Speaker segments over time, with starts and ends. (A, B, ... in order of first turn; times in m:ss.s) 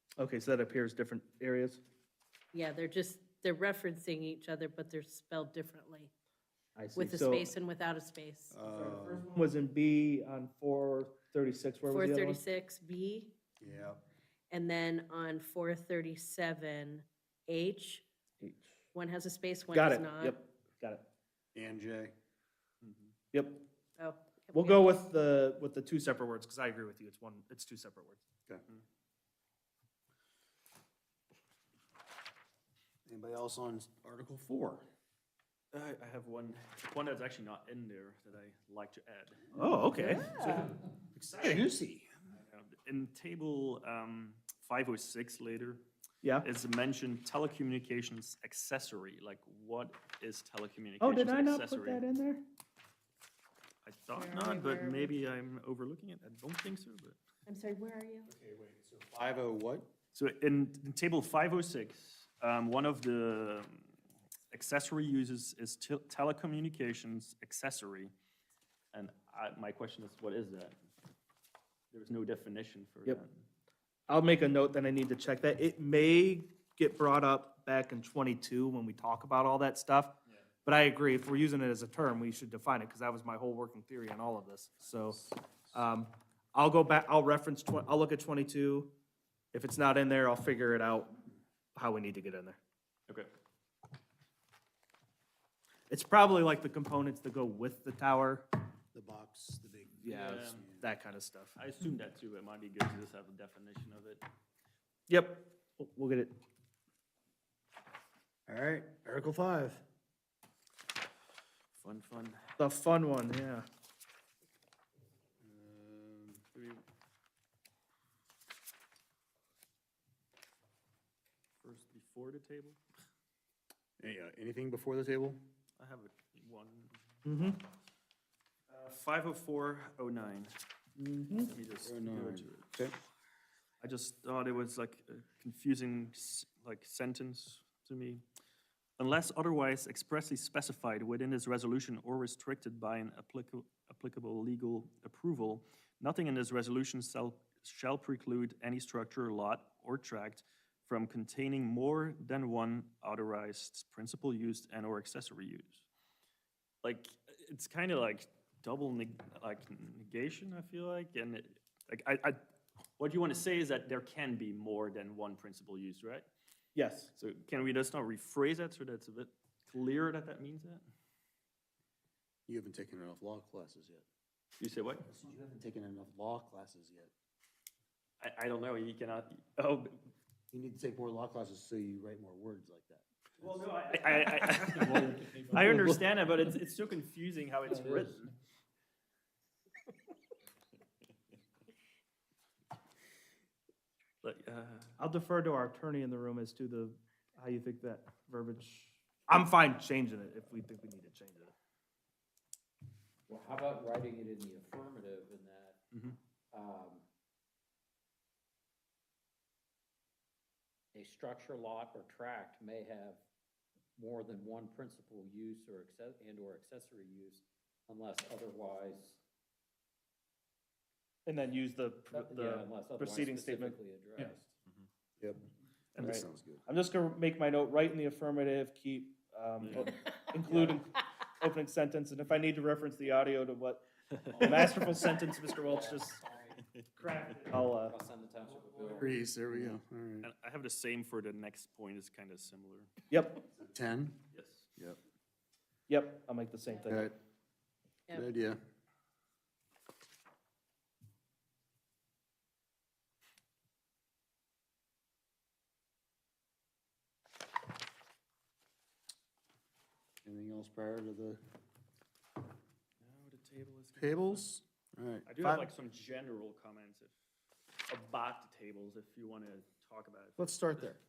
0:00.2-0:01.8 A
0:02.5-0:06.1 B
0:06.8-0:07.5 A
0:07.0-0:08.6 B
0:08.5-0:09.3 C
0:08.6-0:12.4 A
0:11.9-0:13.4 B
0:13.6-0:14.0 C
0:14.5-0:18.1 B
0:18.4-0:18.7 A
0:18.9-0:20.4 B
0:19.7-0:21.1 A
0:21.5-0:22.1 C
0:22.8-0:23.1 D
0:23.3-0:23.6 A
0:24.0-0:25.0 B
0:24.5-0:28.2 A
0:33.1-0:34.9 C
0:35.7-0:39.5 D
0:39.5-0:40.4 A
0:40.2-0:40.7 B
0:41.1-0:42.1 C
0:42.3-0:45.8 D
0:46.4-0:52.0 D
0:51.0-0:52.4 A
0:53.8-0:57.2 D
0:54.2-0:55.2 B
0:57.5-0:58.3 B
0:58.3-0:59.9 C
1:00.1-1:03.9 D
1:04.5-1:08.1 D
1:08.9-1:10.8 D
1:11.9-1:13.4 D
1:14.1-1:29.0 A
1:29.5-1:31.2 A
1:31.8-1:32.6 A
1:35.9-1:38.5 A
1:38.9-1:40.9 C
1:40.0-1:40.7 D
1:40.1-1:41.6 A
1:41.6-1:44.2 D
1:45.1-1:46.4 A
1:48.5-1:49.8 C
1:51.8-1:52.5 D
1:52.6-1:53.7 A
1:55.4-1:56.4 C
1:56.5-1:56.8 D
2:01.6-2:02.8 D
2:04.0-2:05.4 C
2:05.8-2:07.0 D
2:07.2-2:07.6 A
2:08.7-2:10.6 D
2:11.0-2:11.5 A
2:11.4-2:12.9 D
2:11.8-2:13.0 C
2:13.8-2:18.2 D
2:19.0-2:35.8 D
2:36.8-2:42.4 D
2:43.0-2:46.3 D
2:46.8-2:47.1 A
2:47.2-2:50.8 D
2:52.5-2:54.1 C
2:54.6-2:55.1 D
2:55.1-2:57.1 C
2:58.2-3:00.1 D
3:00.5-3:03.5 C
3:03.4-3:08.3 D
3:04.8-3:05.7 A
3:14.2-3:14.9 D
3:15.0-3:21.5 A
3:23.3-3:25.8 E
3:26.5-3:27.0 E
3:30.9-3:33.2 E
3:34.0-3:39.2 E
3:41.3-3:44.3 A
3:42.1-3:44.5 E
3:45.2-3:45.4 C
3:46.0-3:46.2 D
3:46.0-3:46.6 C
3:46.0-3:56.2 A
3:49.6-3:50.0 D
3:54.3-3:54.6 D
3:55.6-3:56.6 E
3:57.0-3:58.0 A
3:57.5-3:59.2 E
3:59.0-4:00.3 C
4:00.2-4:02.9 D
4:03.1-4:03.5 A
4:03.6-4:04.2 C
4:04.3-4:04.7 D
4:05.9-4:07.1 A
4:06.7-4:07.0 B
4:06.9-4:07.2 C
4:08.1-4:08.6 C
4:20.2-4:21.4 C
4:23.0-4:24.5 D
4:24.0-4:25.7 C
4:25.3-4:27.1 D
4:27.9-4:30.7 D
4:30.4-4:31.0 C